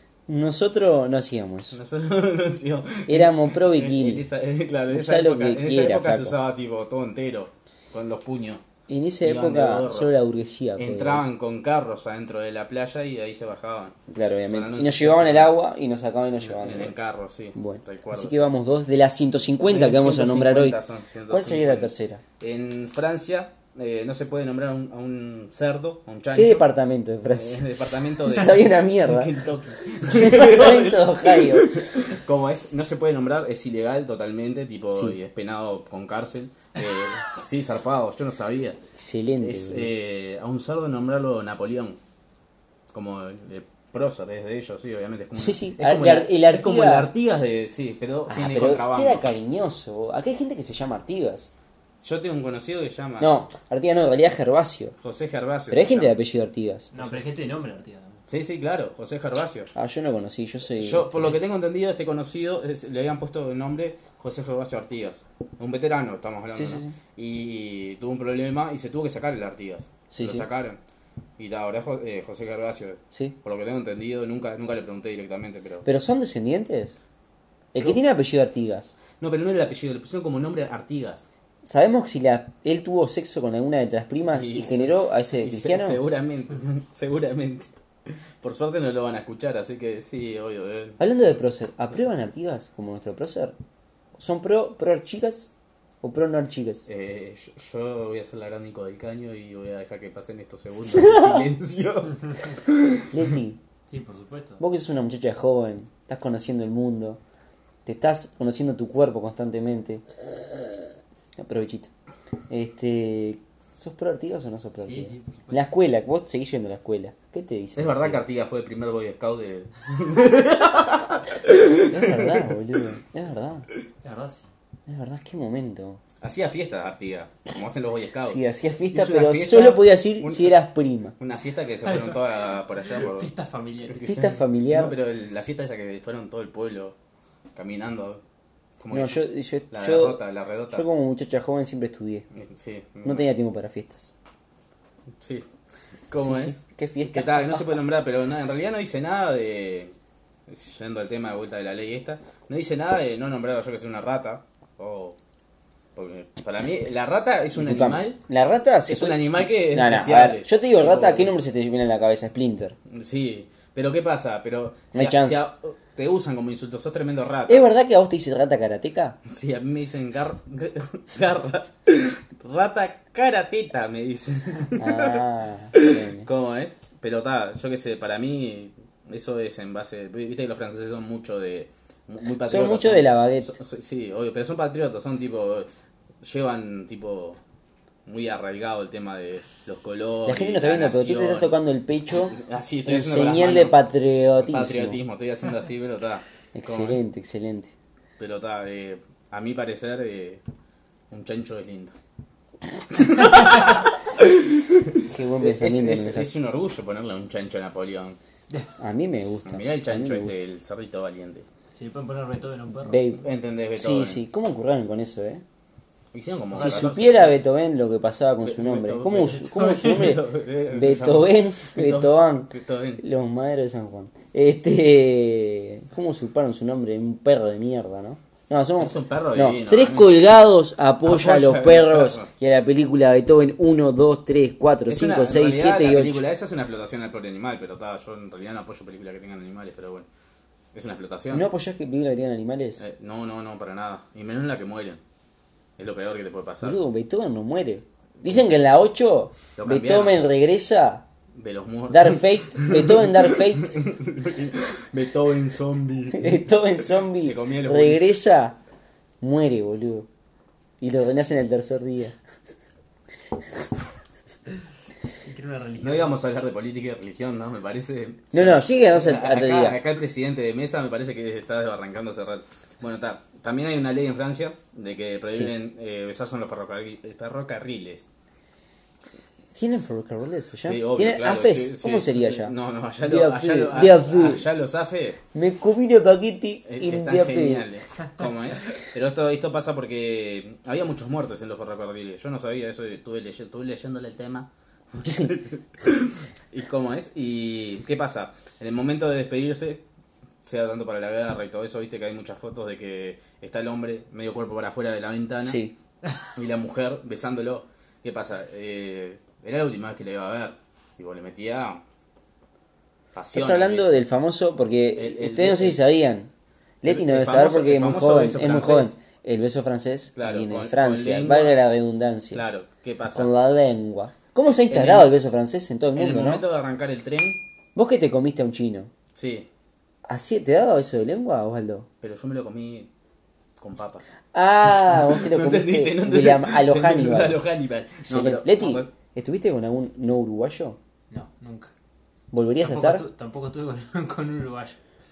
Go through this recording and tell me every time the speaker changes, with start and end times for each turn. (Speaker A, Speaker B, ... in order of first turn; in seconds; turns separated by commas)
Speaker A: 0.3-1.8, Speaker B: 1.7-8.6, Speaker A: 3.1-4.2, Speaker A: 4.9-6.4, Speaker A: 8.9-11.2, Speaker B: 9.2-10.1, Speaker B: 10.8-13.9, Speaker A: 14.1-16.9, Speaker B: 14.5-15.6, Speaker B: 16.4-18.5, Speaker A: 17.5-20.8, Speaker B: 19.6-26.7, Speaker A: 21.3-22.2, Speaker A: 26.3-29.3, Speaker B: 27.3-38.8, Speaker A: 30.0-31.8, Speaker A: 39.0-39.9, Speaker B: 39.4-42.0, Speaker B: 42.9-49.2, Speaker A: 45.4-47.1, Speaker A: 48.3-51.5, Speaker B: 52.0-53.4, Speaker A: 53.2-54.9, Speaker B: 55.0-56.1, Speaker A: 55.7-57.1, Speaker C: 56.9-58.2, Speaker B: 58.3-59.7, Speaker A: 59.7-61.4, Speaker B: 60.8-70.8, Speaker A: 66.5-66.9, Speaker A: 70.1-70.5, Speaker B: 71.4-75.9, Speaker A: 75.8-77.0, Speaker A: 77.7-78.9, Speaker B: 79.2-81.3, Speaker A: 81.6-86.0, Speaker B: 84.3-87.7, Speaker B: 88.4-91.1, Speaker A: 91.0-93.5, Speaker A: 94.2-95.5, Speaker A: 96.0-96.9, Speaker B: 96.9-103.2, Speaker A: 100.9-101.5, Speaker A: 103.1-103.6, Speaker C: 103.9-104.6, Speaker A: 104.6-107.2, Speaker A: 107.8-110.0, Speaker A: 111.3-111.9, Speaker A: 112.5-118.2, Speaker C: 114.8-115.7, Speaker B: 117.8-122.8, Speaker A: 121.8-123.7, Speaker C: 124.0-124.5, Speaker A: 124.9-126.0, Speaker B: 126.2-128.4, Speaker A: 128.2-131.2, Speaker B: 128.9-130.5, Speaker B: 131.2-133.3, Speaker C: 131.8-134.4, Speaker B: 133.9-136.9, Speaker A: 134.0-134.9, Speaker B: 137.5-138.2, Speaker B: 138.8-140.8, Speaker A: 138.9-140.2, Speaker A: 140.7-142.2, Speaker B: 142.3-143.3, Speaker A: 143.0-144.1, Speaker B: 145.2-145.5, Speaker B: 146.1-149.9, Speaker A: 146.2-147.8, Speaker B: 150.5-155.2, Speaker B: 155.9-158.2, Speaker A: 157.5-162.8, Speaker B: 158.9-161.3, Speaker B: 162.9-167.7, Speaker A: 164.9-165.4, Speaker A: 167.5-169.2, Speaker B: 169.2-185.7, Speaker A: 174.8-176.3, Speaker A: 182.4-183.5, Speaker B: 186.2-187.4, Speaker B: 188.1-191.5, Speaker A: 190.2-195.0, Speaker B: 192.3-193.8, Speaker B: 194.4-197.0, Speaker A: 196.5-197.7, Speaker B: 198.2-200.4, Speaker B: 201.1-201.9, Speaker B: 202.9-208.2, Speaker A: 205.1-206.3, Speaker A: 208.8-210.3, Speaker B: 209.4-211.5, Speaker C: 211.7-213.0, Speaker A: 212.8-213.2, Speaker B: 213.2-214.2, Speaker A: 213.8-215.4, Speaker B: 216.1-217.3, Speaker C: 216.5-217.1, Speaker A: 216.5-236.2, Speaker B: 218.4-223.0, Speaker B: 228.8-230.1, Speaker B: 231.0-232.3, Speaker B: 234.9-240.1, Speaker B: 240.7-241.5, Speaker A: 241.3-242.8, Speaker B: 242.8-245.0, Speaker B: 245.8-246.8, Speaker A: 246.6-251.0, Speaker B: 249.6-250.2, Speaker B: 251.3-258.2, Speaker A: 251.9-253.8, Speaker A: 256.1-258.6, Speaker A: 259.2-260.1, Speaker A: 260.8-262.2, Speaker C: 265.2-266.2, Speaker B: 265.8-278.1, Speaker A: 268.3-269.8, Speaker A: 279.5-284.5, Speaker B: 280.6-285.2, Speaker A: 285.3-287.6, Speaker B: 286.6-299.8, Speaker A: 295.0-295.3, Speaker B: 300.4-305.6, Speaker A: 305.4-305.7, Speaker B: 306.3-311.8, Speaker B: 313.1-314.0, Speaker A: 313.3-316.3, Speaker B: 314.9-315.8, Speaker A: 316.8-322.4, Speaker B: 316.8-318.9, Speaker B: 320.1-321.6, Speaker B: 322.3-323.3, Speaker A: 323.1-326.4, Speaker B: 324.7-325.1, Speaker B: 325.9-327.4, Speaker A: 327.7-328.9, Speaker B: 329.1-329.5, Speaker A: 330.1-331.9, Speaker B: 332.0-332.9, Speaker B: 333.6-334.1, Speaker A: 334.3-337.4, Speaker B: 334.6-338.9, Speaker A: 338.0-340.8, Speaker C: 341.1-341.7, Speaker A: 342.3-343.1, Speaker C: 342.6-344.8